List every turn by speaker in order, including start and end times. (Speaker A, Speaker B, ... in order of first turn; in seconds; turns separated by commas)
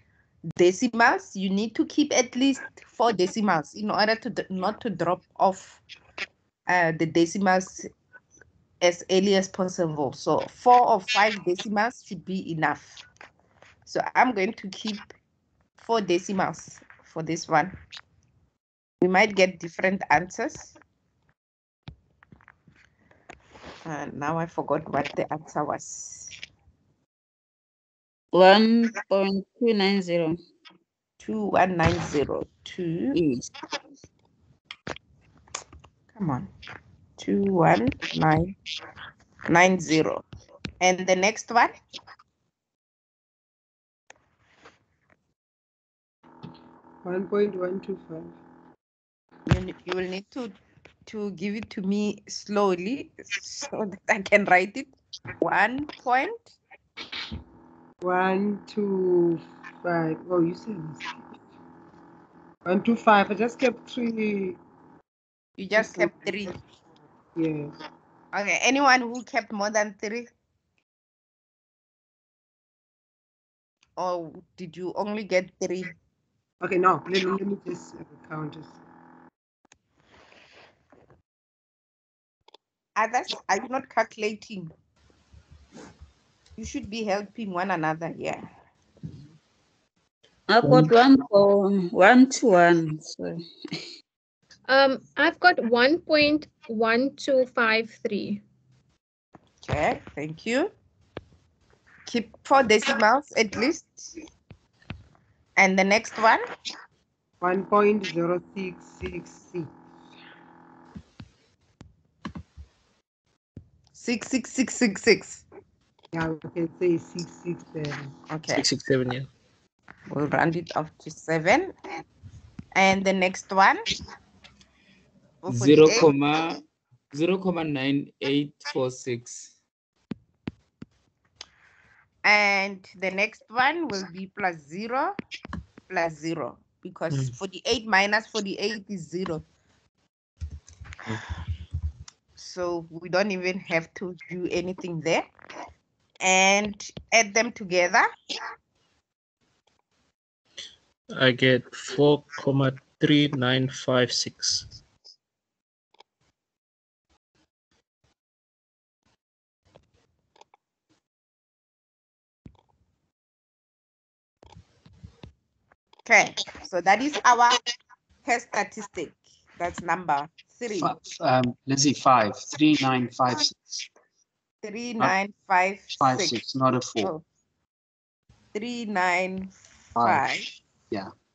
Speaker A: 0.6-5.8, Speaker A: 6.7-7.9, Speaker A: 8.8-13.0, Speaker A: 13.8-15.1, Speaker A: 15.8-17.7, Speaker A: 19.0-20.7, Speaker A: 23.8-26.3, Speaker B: 28.3-30.4, Speaker A: 31.2-33.2, Speaker B: 33.1-33.5, Speaker A: 36.1-36.5, Speaker A: 37.2-38.5, Speaker A: 39.5-40.2, Speaker A: 40.8-41.7, Speaker C: 47.0-48.4, Speaker A: 49.5-50.5, Speaker A: 51.0-56.5, Speaker C: 58.0-61.2, Speaker C: 62.7-64.6, Speaker A: 65.6-66.5, Speaker C: 65.8-66.6, Speaker C: 67.3-67.7, Speaker A: 68.3-70.3, Speaker A: 74.0-75.9, Speaker C: 76.6-78.8, Speaker A: 83.0-84.7, Speaker A: 86.6-88.5, Speaker B: 90.5-93.4, Speaker D: 94.7-98.4, Speaker A: 99.6-100.7, Speaker A: 102.1-104.1, Speaker A: 105.6-106.4, Speaker C: 107.4-109.7, Speaker A: 113.9-115.4, Speaker C: 116.1-118.1, Speaker A: 118.3-118.6, Speaker E: 118.5-119.3, Speaker A: 120.1-121.7, Speaker A: 122.7-123.8, Speaker A: 125.4-126.1, Speaker F: 125.5-129.5, Speaker A: 132.2-135.1, Speaker A: 135.9-139.4, Speaker A: 142.4-145.3, Speaker A: 146.2-148.1, Speaker E: 151.1-154.8, Speaker A: 166.1-167.6, Speaker A: 168.2-171.0, Speaker G: 170.7-173.8, Speaker A: 174.6-176.4, Speaker G: 175.9-177.1, Speaker A: 178.5-180.5, Speaker G: 179.9-180.3